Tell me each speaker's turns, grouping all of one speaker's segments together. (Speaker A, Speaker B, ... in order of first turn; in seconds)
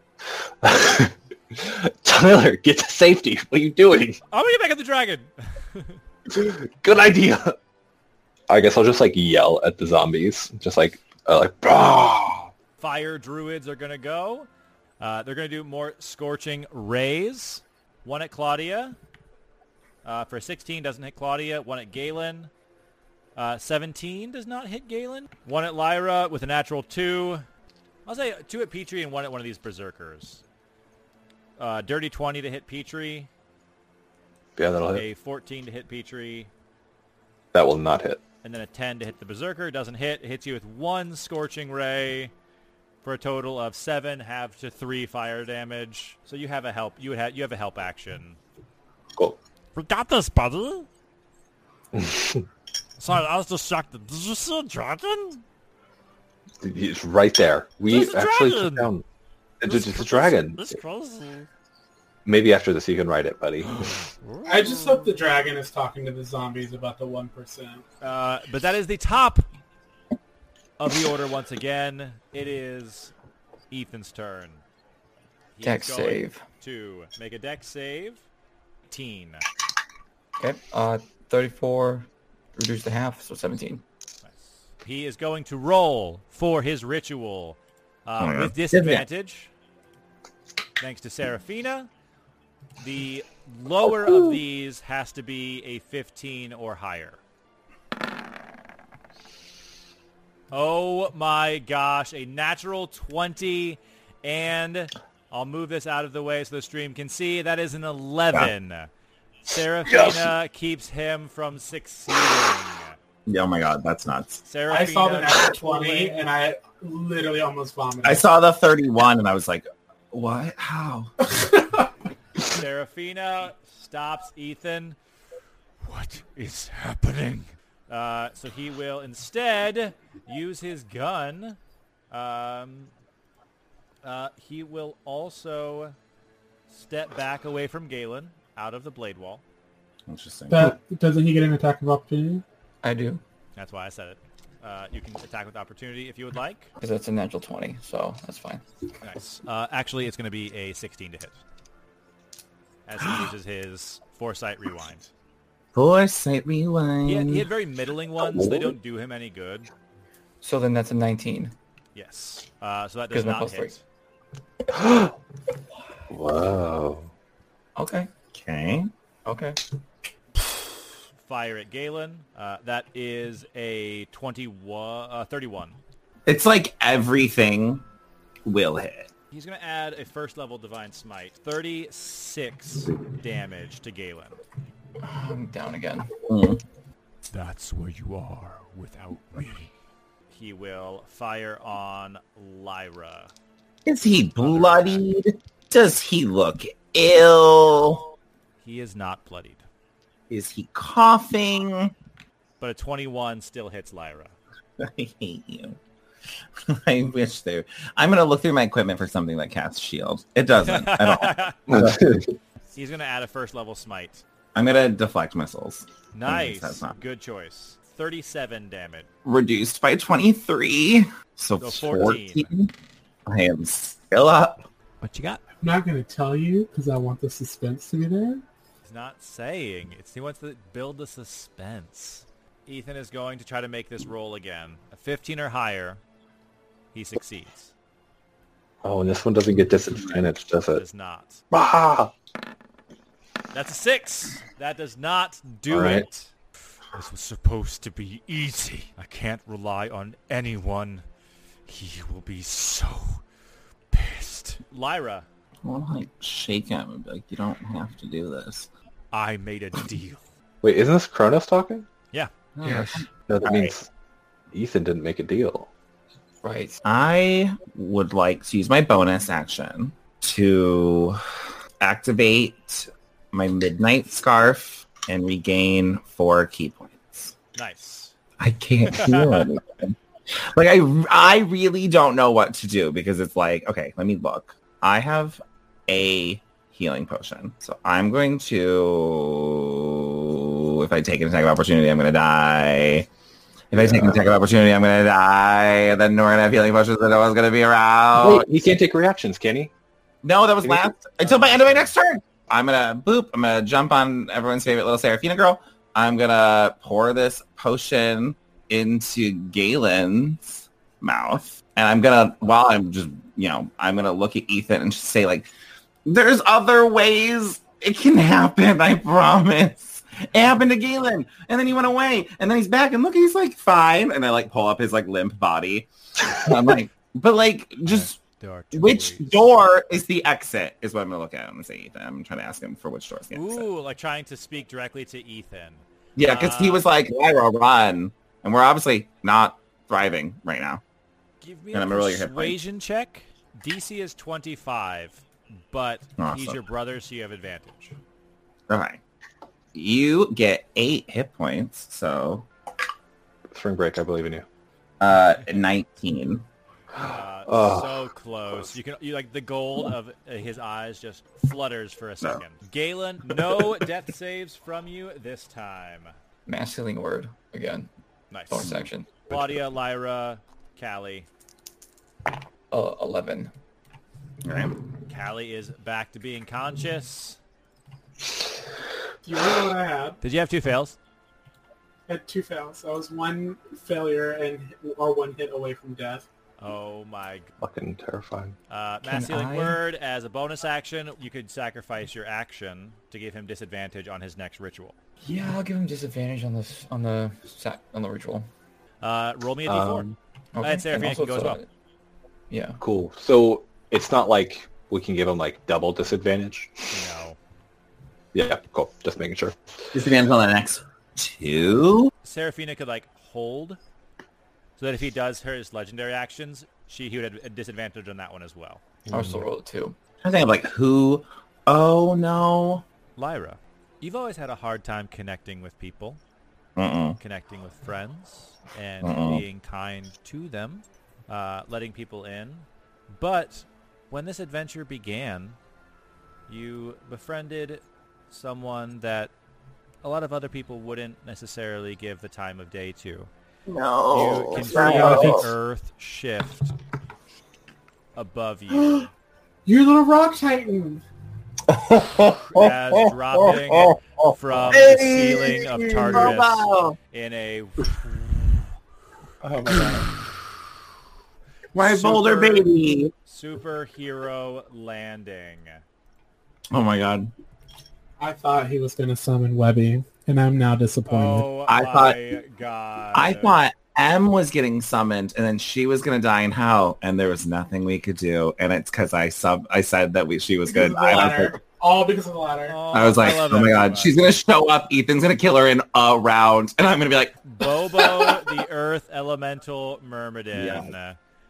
Speaker A: 0.6-4.2, 6.3-7.5, 8.5-12.5, 34.6-35.0, 37.5-38.2, 51.9-52.4, 56.6-59.0, 59.6-60.8, 62.2-63.9, 109.9-110.3, 158.2-158.7, 164.7-165.1, 166.1-167.1, 211.7-212.2, 238.8-240.8, 241.5-242.1, 245.7-246.0, 260.6-261.8, 262.6-263.9, 264.5-265.7, 293.7-294.3, 298.1-299.7, 300.6-300.9, 353.5-354.4, 356.9-358.0, 387.6-388.6, 399.7-400.1, 402.8-407.0, 408.3-409.5, 419.1-419.4, 459.4-460.1
Speaker B: 4.3-6.0, 12.8-14.5, 15.0-19.0, 20.0-22.5, 23.4-27.4, 28.1-30.4, 31.6-33.3, 34.9-36.5, 38.4-42.3, 43.0-48.4, 49.7-50.9, 53.0-55.4, 57.9-58.9, 59.6-61.5, 63.6-65.1, 68.0-69.5, 70.8-73.1, 73.7-74.6, 75.5-78.2, 78.9-79.4, 84.2-89.5, 90.8-91.9, 92.8-97.2, 100.5-108.9, 109.5-113.0, 114.4-116.2, 122.4-125.0, 125.8-131.6, 132.1-132.9, 134.0-135.9, 136.7-139.4, 143.6-146.7, 149.0-151.4, 152.8-155.1, 157.0-159.7, 161.9-163.8, 171.2-175.8, 179.3-184.4, 187.3-189.7, 190.3-193.3, 194.4-195.1, 198.6-199.6, 202.6-204.3, 210.6-211.7, 212.7-214.2, 216.1-219.1, 221.6-222.5, 225.0-225.4, 228.8-236.0, 236.9-237.7, 240.7-241.4, 243.5-251.1, 251.7-253.2, 253.9-255.3, 259.1-260.2, 262.1-262.9, 263.5-263.7, 277.5-278.1, 278.9-279.5, 301.2-301.9, 327.8-329.5, 333.3-336.9, 341.4-347.9, 357.1-366.1, 368.3-368.7, 369.3-371.3, 375.1-377.4, 380.2-381.0, 386.6-387.5, 388.7-394.9, 399.0-401.6, 406.9-407.4, 412.2-413.8, 414.8-418.8, 423.2-426.2, 427.2-435.6, 436.5-439.3, 440.0-443.3, 444.1-446.7, 448.1-449.1, 452.4-458.7, 461.8-462.7, 463.2-465.8, 471.1-473.6, 482.7-484.2, 487.4-491.2
Speaker C: 64.4-67.8, 114.7-118.2, 121.3-121.8, 140.5-142.4, 225.6-228.4, 379.2-380.2, 382.1-386.2, 449.6-451.0, 468.2-471.5, 480.6-482.8
Speaker D: 75.6-76.4, 80.4-83.8, 142.8-143.2, 146.8-148.6, 160.4-161.5, 163.1-163.8, 167.8-168.1, 169.2-169.6, 185.0-186.1, 266.4-266.8, 366.4-367.9, 368.5-369.1, 372.7-373.5, 395.2-398.5, 400.5-401.7, 402.5-402.8, 419.1-420.0
Speaker E: 88.2-89.0, 113.3-114.4, 118.0-121.3, 140.1-140.7, 155.7-157.5, 168.3-168.9, 176.2-177.8, 178.4-179.1, 186.3-186.6, 193.8-198.0, 200.3-201.9, 204.8-205.8, 206.6-212.2, 214.5-217.0, 219.2-222.7, 223.3-224.6, 255.6-258.7, 262.5-263.1, 266.8-271.2, 271.8-277.3, 278.4-293.1, 293.7-298.7, 300.2-315.5, 316.0-328.1, 328.7-333.7, 336.1-340.8, 341.7-342.6, 346.2-346.6, 348.7-349.0, 349.7-352.5, 355.0-356.5, 368.6-368.9, 374.4-374.7, 389.1-389.8, 409.9-412.1, 420.2-422.8, 426.8-427.2, 429.0-429.4, 443.6-445.5, 451.6-456.9, 461.7-463.1, 466.7-467.3, 471.7-472.2, 473.1-481.6, 482.9-488.5, 490.5-490.9